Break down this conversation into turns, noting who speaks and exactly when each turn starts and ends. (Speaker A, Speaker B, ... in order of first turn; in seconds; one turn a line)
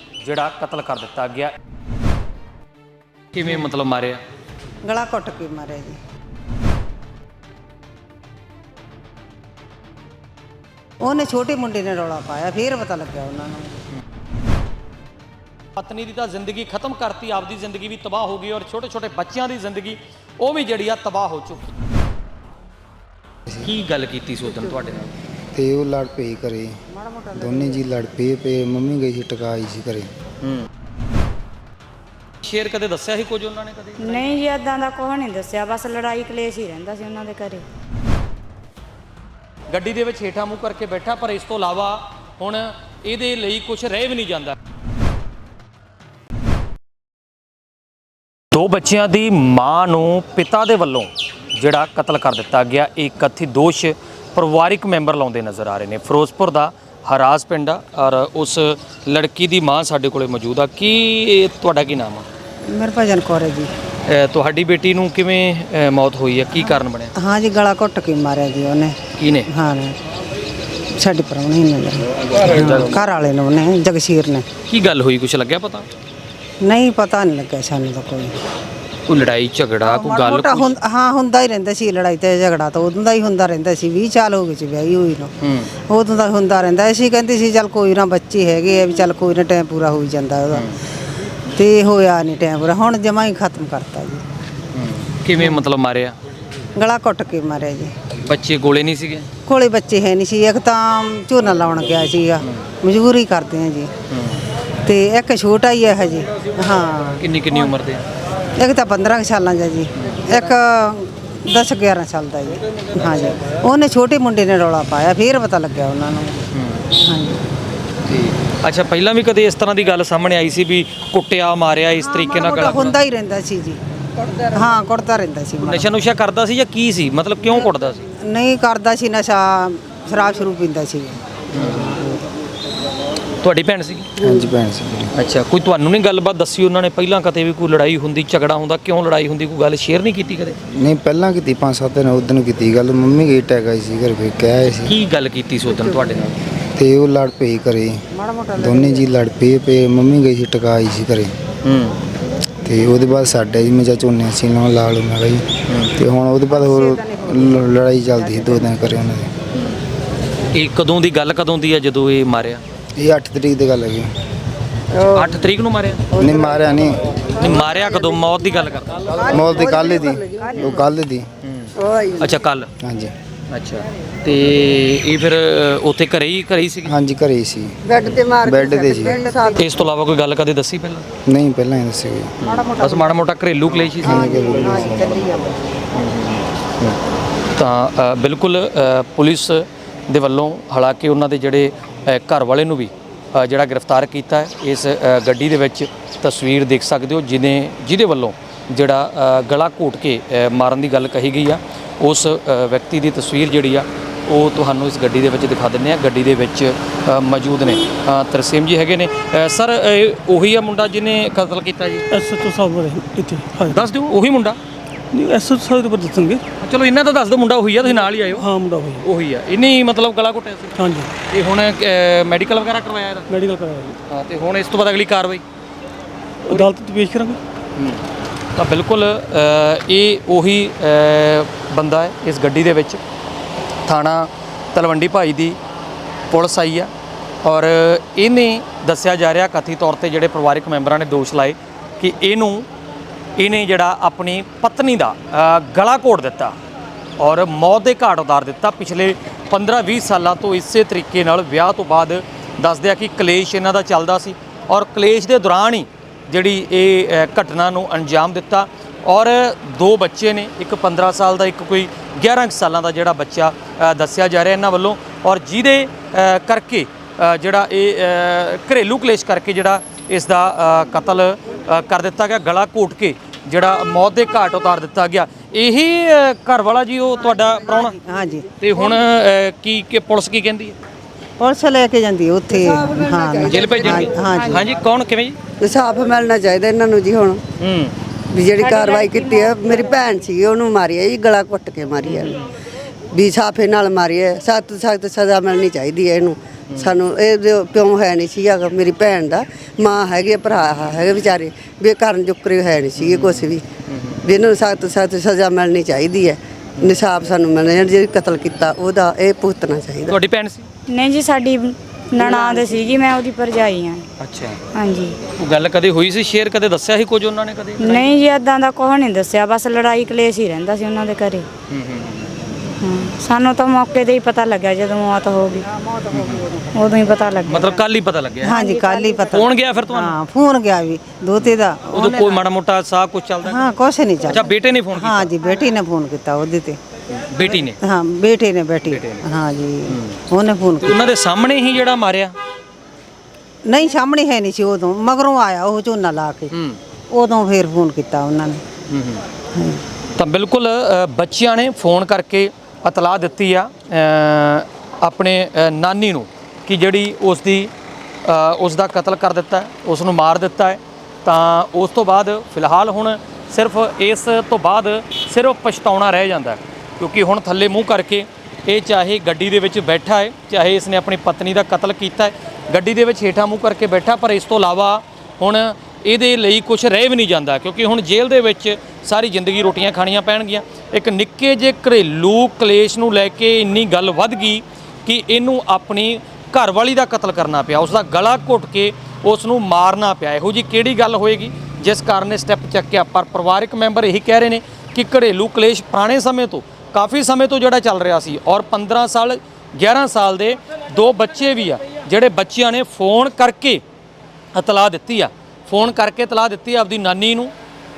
Speaker A: 0.2-1.5
Speaker A: 3.3-4.2
Speaker B: 4.8-6.0
Speaker B: 11.0-13.8
Speaker A: 15.8-21.7
Speaker A: 23.6-25.1
Speaker C: 25.5-26.7
Speaker B: 27.0-27.5
Speaker C: 27.3-30.1
Speaker A: 32.4-34.3
Speaker D: 34.0-37.6
Speaker A: 39.7-44.5
Speaker A: 48.5-62.2
Speaker B: 62.6-63.7
Speaker A: 64.0-67.1
Speaker B: 67.1-70.0
Speaker A: 69.1-69.5
Speaker B: 70.9-74.5
Speaker A: 72.4-73.0
Speaker A: 74.7-75.9
Speaker B: 76.6-78.4
Speaker A: 79.1-80.8
Speaker B: 79.8-90.7
Speaker A: 85.4-85.7
Speaker A: 90.5-90.8
Speaker B: 91.5-94.2
Speaker A: 94.7-96.2
Speaker B: 96.8-97.9
Speaker A: 98.2-99.3
Speaker B: 99.4-103.9
Speaker A: 104.1-104.4
Speaker B: 104.8-107.2
Speaker A: 107.2-108.0
Speaker B: 108.5-117.5
Speaker A: 116.5-116.9
Speaker A: 118.1-123.0
Speaker B: 122.0-123.8
Speaker B: 124.4-125.9
Speaker A: 125.6-128.0
Speaker B: 127.5-131.2
Speaker A: 131.5-132.0
Speaker B: 131.7-132.2
Speaker A: 133.4-134.1
Speaker C: 134.2-135.1
Speaker A: 135.1-140.6
Speaker C: 140.7-144.9
Speaker A: 144.8-146.4
Speaker C: 146.8-148.0
Speaker B: 148.1-149.1
Speaker C: 148.5-151.3
Speaker A: 151.6-152.0
Speaker C: 152.6-159.3
Speaker A: 155.7-155.9
Speaker B: 156.5-158.7
Speaker A: 160.5-162.6
Speaker C: 162.9-164.1
Speaker E: 164.9-165.4
Speaker A: 165.1-166.0
Speaker E: 166.1-166.4
Speaker C: 166.1-167.0
Speaker A: 167.3-169.1
Speaker E: 169.2-170.8
Speaker C: 169.3-171.3
Speaker A: 170.6-170.8
Speaker A: 171.4-172.7
Speaker E: 171.8-172.3
Speaker C: 172.8-173.1
Speaker A: 173.5-176.9
Speaker C: 176.8-177.8
Speaker E: 177.8-179.8
Speaker C: 178.4-179.2
Speaker B: 179.1-179.6
Speaker A: 179.6-181.1
Speaker C: 181.2-182.3
Speaker A: 182.4-184.9
Speaker B: 182.4-183.2
Speaker C: 184.0-185.2
Speaker B: 184.1-185.8
Speaker A: 185.9-187.0
Speaker A: 187.5-212.1
Speaker F: 212.1-213.8
Speaker A: 213.6-214.6
Speaker F: 215.1-216.4
Speaker A: 216.6-218.5
Speaker F: 218.3-219.1
Speaker A: 219.0-223.3
Speaker F: 220.7-221.1
Speaker F: 223.3-224.0
Speaker A: 224.1-225.4
Speaker A: 226.4-226.7
Speaker F: 226.5-227.4
Speaker A: 227.8-228.0
Speaker A: 228.6-233.0
Speaker A: 233.8-235.6
Speaker A: 236.3-236.9
Speaker A: 237.4-242.7
Speaker A: 243.4-246.5
Speaker A: 247.2-278.0
Speaker B: 277.7-278.5
Speaker A: 278.6-280.8
Speaker B: 281.4-284.6
Speaker E: 282.7-284.2
Speaker A: 283.4-285.4
Speaker E: 285.6-287.4
Speaker A: 287.6-287.9
Speaker E: 288.3-292.4
Speaker D: 288.6-290.3
Speaker A: 292.0-292.4
Speaker E: 293.1-303.6
Speaker A: 303.0-304.2
Speaker E: 304.2-310.1
Speaker A: 310.1-310.7
Speaker D: 310.9-314.0
Speaker E: 312.1-313.0
Speaker A: 314.2-314.6
Speaker D: 314.7-315.2
Speaker A: 315.3-318.1
Speaker D: 317.8-321.5
Speaker A: 321.7-322.3
Speaker D: 322.8-325.7
Speaker B: 325.7-326.8
Speaker A: 326.1-326.5
Speaker D: 326.7-327.8
Speaker A: 327.5-328.6
Speaker D: 328.4-329.5
Speaker B: 328.4-332.4
Speaker A: 329.3-330.2
Speaker A: 331.4-333.7
Speaker B: 333.4-336.8
Speaker A: 334.3-335.3
Speaker A: 337.1-337.8
Speaker B: 337.5-341.1
Speaker A: 338.9-339.2
Speaker A: 339.9-340.2
Speaker A: 340.8-342.3
Speaker B: 343.6-346.5
Speaker A: 346.5-346.8
Speaker B: 347.1-348.6
Speaker A: 348.9-349.2
Speaker B: 349.5-349.8
Speaker A: 350.1-357.7
Speaker A: 358.2-403.8
Speaker A: 404.5-407.5